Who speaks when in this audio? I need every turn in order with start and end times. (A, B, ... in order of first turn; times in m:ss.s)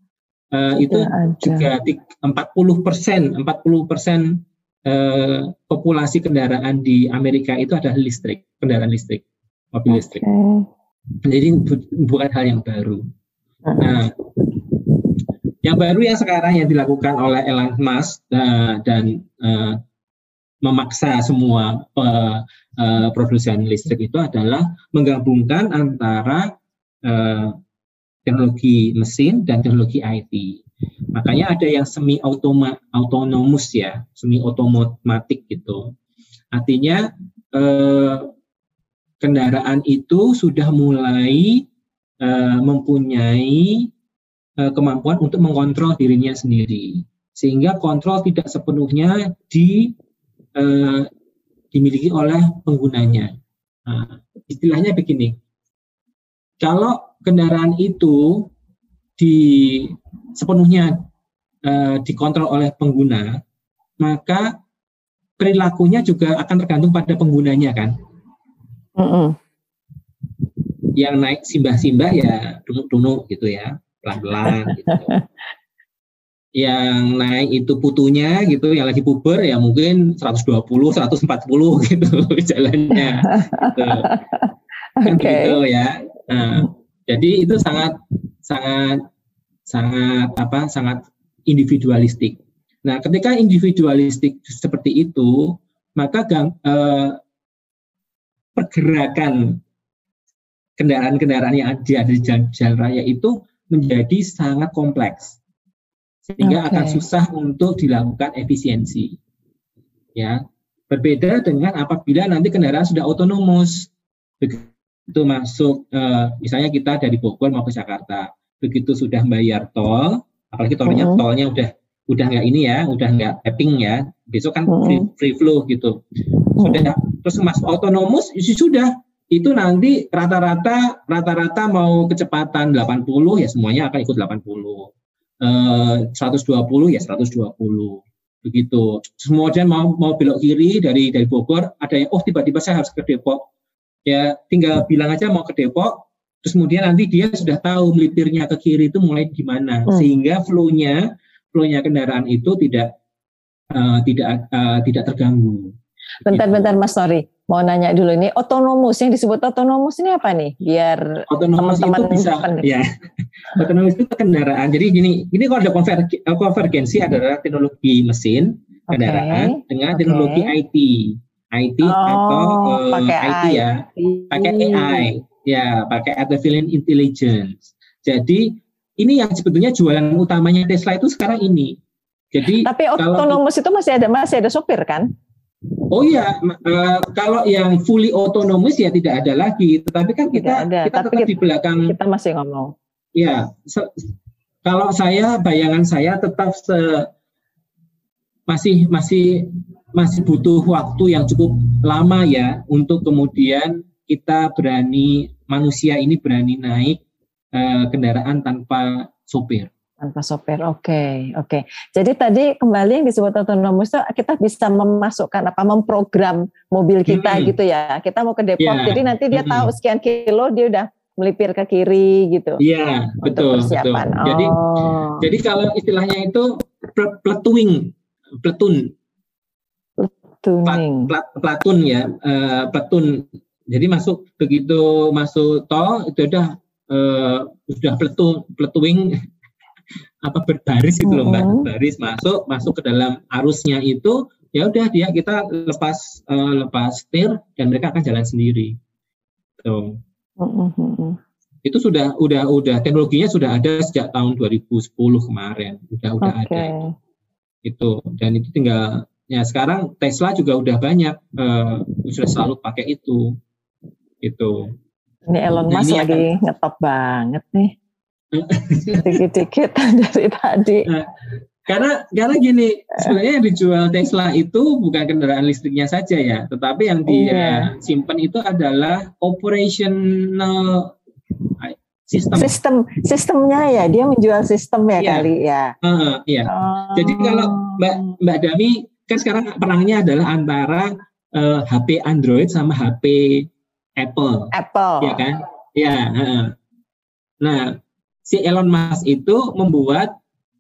0:00.5-0:10.2 A
0:00.9-0:01.7 B
0:09.9-0:10.7 B
0:11.2-0:13.1 A
0:13.6-0:14.0 B
0:13.8-0:14.1 A
0:15.6-0:19.8 A
0:20.6-0:26.5 A
0:27.0-0:27.6 A
0:28.3-0:30.6 A
0:31.1-0:35.9 A
0:36.5-0:38.3 A
0:39.2-0:41.6 A
0:42.2-0:43.9 A
0:44.6-0:49.9 A
0:50.6-0:51.1 A
0:51.7-0:53.3 A
0:53.9-0:55.4 A
0:56.6-0:58.5 A
0:59.2-1:01.0 A
1:01.6-1:03.4 A
1:04.0-1:04.5 A
1:05.4-1:07.9 A
1:09.0-1:09.4 B
1:10.9-1:15.1 A
1:14.4-1:15.2 B
1:16.6-1:24.1 A
1:22.9-1:25.6 B
1:25.0-1:29.0 A
1:29.7-1:37.2 A
1:38.6-1:39.6 A
1:40.8-1:45.4 A
1:46.3-1:49.2 A
1:46.4-1:47.0 B
1:50.1-1:53.9 A
1:54.4-2:06.0 A
2:00.9-2:01.3 B
2:04.7-2:05.1 B
2:06.6-2:06.9 B
2:06.6-2:23.4 A
2:24.1-2:31.0 A
2:29.9-2:30.2 B
2:31.5-2:32.9 A
2:33.7-2:35.7 A
2:36.2-2:42.7 B
2:36.3-2:36.7 A
2:41.3-2:42.9 A
2:43.6-2:58.4 A
2:48.9-2:50.5 B
2:51.8-2:55.1 B
2:59.0-3:01.8 A
3:02.3-3:03.4 A
3:02.5-3:05.1 B
3:05.9-3:11.9 A
3:10.3-3:11.3 B
3:11.9-3:12.7 B
3:13.1-3:14.1 A
3:14.6-3:17.1 A
3:18.5-3:27.0 A
3:27.5-3:29.7 A
3:30.0-3:42.6 B
3:37.1-3:37.5 A
3:38.6-3:39.7 A
3:42.6-3:44.6 A
3:43.2-3:45.2 B
3:45.2-3:48.9 A
3:50.0-3:51.1 B
3:50.6-3:59.1 A
4:00.2-4:08.7 A
4:01.0-4:01.7 B
4:09.6-4:10.0 A
4:10.4-4:11.2 B
4:11.6-4:16.7 A
4:16.2-4:16.9 B
4:17.6-4:23.3 A
4:24.2-4:24.7 A
4:25.3-4:27.7 B
4:25.7-4:26.3 A
4:28.3-4:29.2 A
4:28.9-4:30.9 B
4:31.6-4:40.9 A
4:37.1-4:37.7 B
4:41.6-4:42.5 A
4:42.4-4:45.7 B
4:45.0-4:56.5 A
4:46.5-4:48.1 B
4:54.5-4:55.2 B
4:57.4-5:00.1 A